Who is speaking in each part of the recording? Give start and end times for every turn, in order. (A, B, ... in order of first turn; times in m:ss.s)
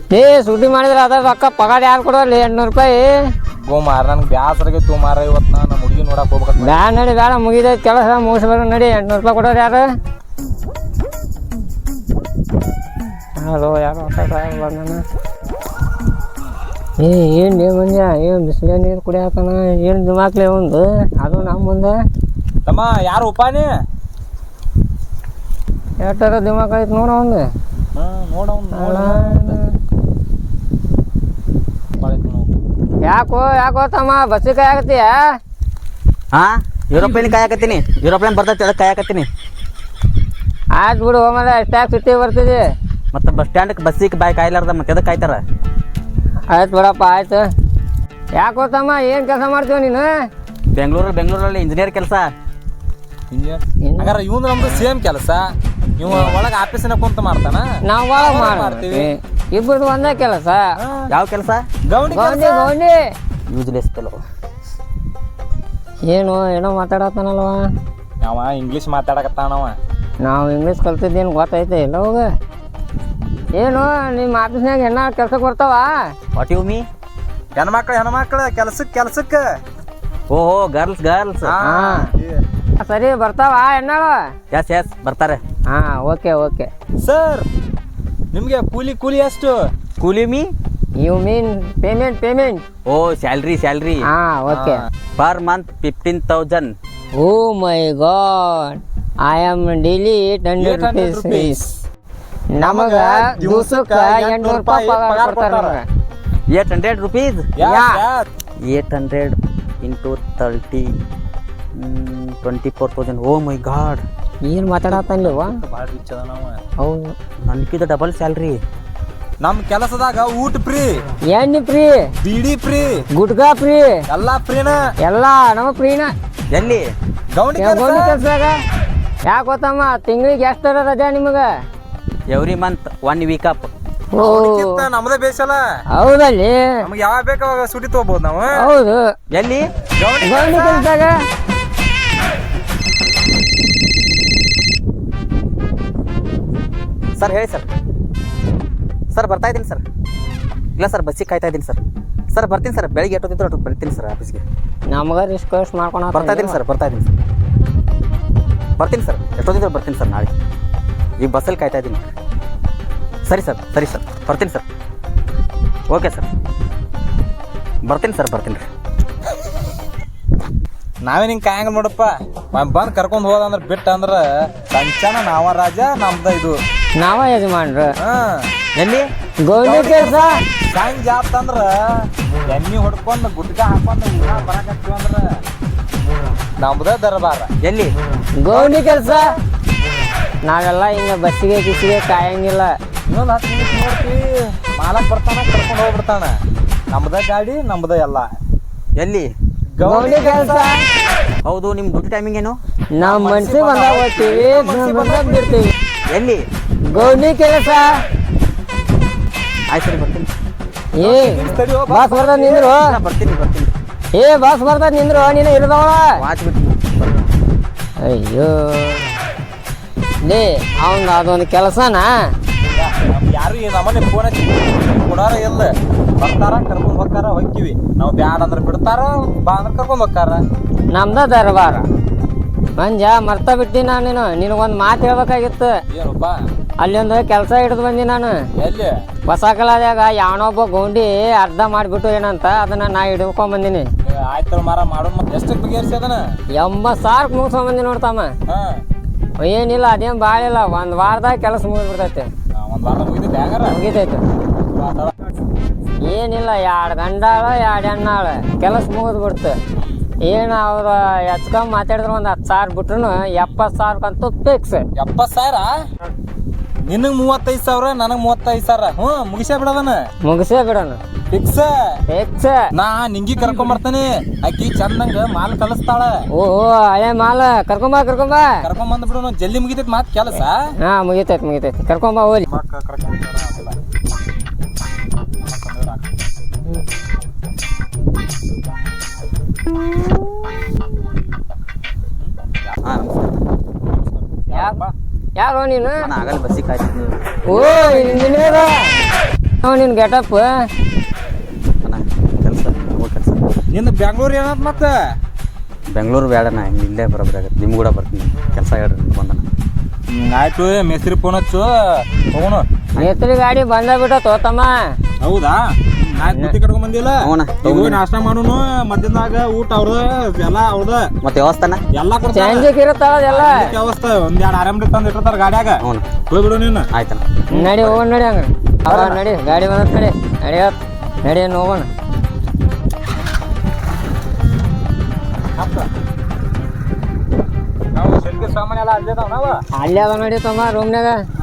0:00.1-0:03.2 A
0:03.6-0:06.8 B
0:06.6-0:09.9 A
0:13.4-0:15.0 A
0:17.0-0:22.0 A
0:22.7-0:23.7 B
0:26.0-0:27.5 A
0:28.0-0:29.6 B
0:28.8-0:29.7 A
0:32.0-0:32.6 B
0:33.0-0:35.3 A
0:36.3-0:39.3 C
0:40.7-0:42.7 A
0:43.1-0:45.4 C
0:46.5-0:47.5 A
0:48.4-0:50.1 A
0:50.7-0:52.3 C
0:53.3-0:59.1 B
0:53.8-0:54.1 A
0:56.1-0:56.4 A
0:57.8-1:00.6 A
1:00.8-1:01.1 B
1:01.1-1:01.7 C
1:01.9-1:02.7 B
1:02.1-1:03.0 A
1:03.5-1:04.2 C
1:06.1-1:07.6 A
1:08.2-1:09.8 B
1:10.2-1:12.3 A
1:13.5-1:16.0 A
1:16.3-1:16.9 C
1:17.6-1:19.5 B
1:20.3-1:21.6 C
1:21.4-1:22.4 B
1:21.6-1:22.1 A
1:22.8-1:24.2 A
1:24.5-1:25.4 C
1:25.7-1:26.7 A
1:27.0-1:27.5 B
1:28.3-1:29.6 B
1:30.0-1:30.5 C
1:31.0-1:32.6 A
1:32.9-1:34.0 C
1:34.1-1:34.8 A
1:34.5-1:34.8 B
1:35.2-1:36.8 C
1:37.2-1:41.7 A
1:40.6-1:41.6 B
1:42.5-1:45.8 A
1:42.6-1:45.8 B
1:46.5-1:47.5 C
1:47.6-1:48.2 B
1:47.6-1:48.0 A
1:48.6-1:50.9 C
1:51.8-1:54.0 C
1:54.4-1:55.6 A
1:54.8-1:56.6 B
1:56.8-1:57.1 A
1:57.5-1:58.6 C
1:59.4-2:01.0 B
2:01.3-2:02.1 A
2:02.2-2:03.0 B
2:03.1-2:04.0 A
2:04.1-2:04.8 B
2:05.0-2:06.1 A
2:06.5-2:06.9 C
2:07.3-2:08.2 B
2:07.6-2:08.6 A
2:09.3-2:11.5 A
2:12.3-2:13.7 C
2:14.1-2:14.9 A
2:14.2-2:15.6 B
2:15.9-2:16.8 A
2:16.8-2:18.7 B
2:18.5-2:19.0 A
2:19.3-2:19.7 C
2:20.0-2:20.9 B
2:20.2-2:21.2 A
2:27.2-2:27.7 C
2:29.1-2:29.8 C
2:30.8-2:31.8 C
2:32.3-2:34.4 C
2:34.9-2:36.6 A
2:36.1-2:37.1 C
2:38.8-2:40.3 C
2:41.2-2:42.1 C
2:43.3-2:44.6 C
2:45.9-2:46.3 C
2:47.8-2:48.7 C
2:51.0-2:56.6 B
2:57.0-2:57.9 A
2:58.0-2:58.5 B
2:58.7-2:59.1 C
2:59.4-3:00.4 A
2:59.5-3:05.4 B
3:06.6-3:07.5 B
3:07.6-3:08.0 C
3:08.4-3:09.3 A
3:08.5-3:09.3 B
3:10.4-3:12.7 A
3:13.1-3:16.3 B
3:16.9-3:18.3 B
3:19.0-3:19.3 C
3:19.8-3:20.7 B
3:19.8-3:20.8 A
3:21.4-3:22.6 C
3:23.0-3:25.7 A
3:23.0-3:25.7 B
3:26.1-3:26.5 C
3:26.9-3:28.0 A
3:29.7-3:30.3 C
3:30.9-3:32.8 B
3:31.0-3:32.9 A
3:32.8-3:33.7 C
3:34.1-3:36.2 A
3:36.2-3:37.2 C
3:38.0-3:39.1 A
3:40.2-3:42.1 A
3:42.7-3:50.4 B
3:50.9-3:51.9 A
3:52.8-3:55.8 A
3:55.9-3:56.4 B
3:56.8-3:58.4 A
3:58.6-3:59.0 B
3:59.2-4:03.9 A
4:04.0-4:06.2 B
4:06.6-4:08.3 A
4:08.5-4:08.8 B
4:09.4-4:12.3 A
4:12.6-4:13.8 B
4:13.7-4:14.2 A
4:14.6-4:15.3 B
4:16.0-4:19.6 A
4:20.2-4:24.9 A
4:25.0-4:25.8 B
4:26.9-4:30.0 B
4:30.2-4:31.0 A
4:31.3-4:32.0 B
4:32.1-4:32.7 A
4:32.7-4:36.2 B
4:36.3-4:38.6 A
4:38.6-4:40.6 B
4:40.8-4:42.4 A
4:42.5-4:43.8 B
4:45.4-4:46.1 B
4:52.2-4:52.8 B
4:52.8-4:53.4 C
4:53.9-4:54.9 B
4:54.5-4:54.8 A
4:55.4-4:56.1 A
4:56.0-4:57.9 C
4:57.5-4:59.0 A
4:59.6-5:00.5 A
5:01.8-5:03.4 C
5:03.7-5:05.0 B
5:05.9-5:09.5 C
5:10.1-5:12.7 B
5:13.0-5:14.7 A
5:15.2-5:21.1 B
5:16.3-5:16.5 A
5:17.2-5:18.0 C
5:21.2-5:21.8 C
5:21.9-5:22.7 B
5:22.3-5:23.7 A
5:23.3-5:26.9 B
5:25.8-5:26.1 C
5:26.9-5:28.0 C
5:27.5-5:31.9 A
5:28.9-5:29.2 B
5:35.6-5:35.9 B
5:38.0-5:39.6 B
5:39.7-5:41.2 A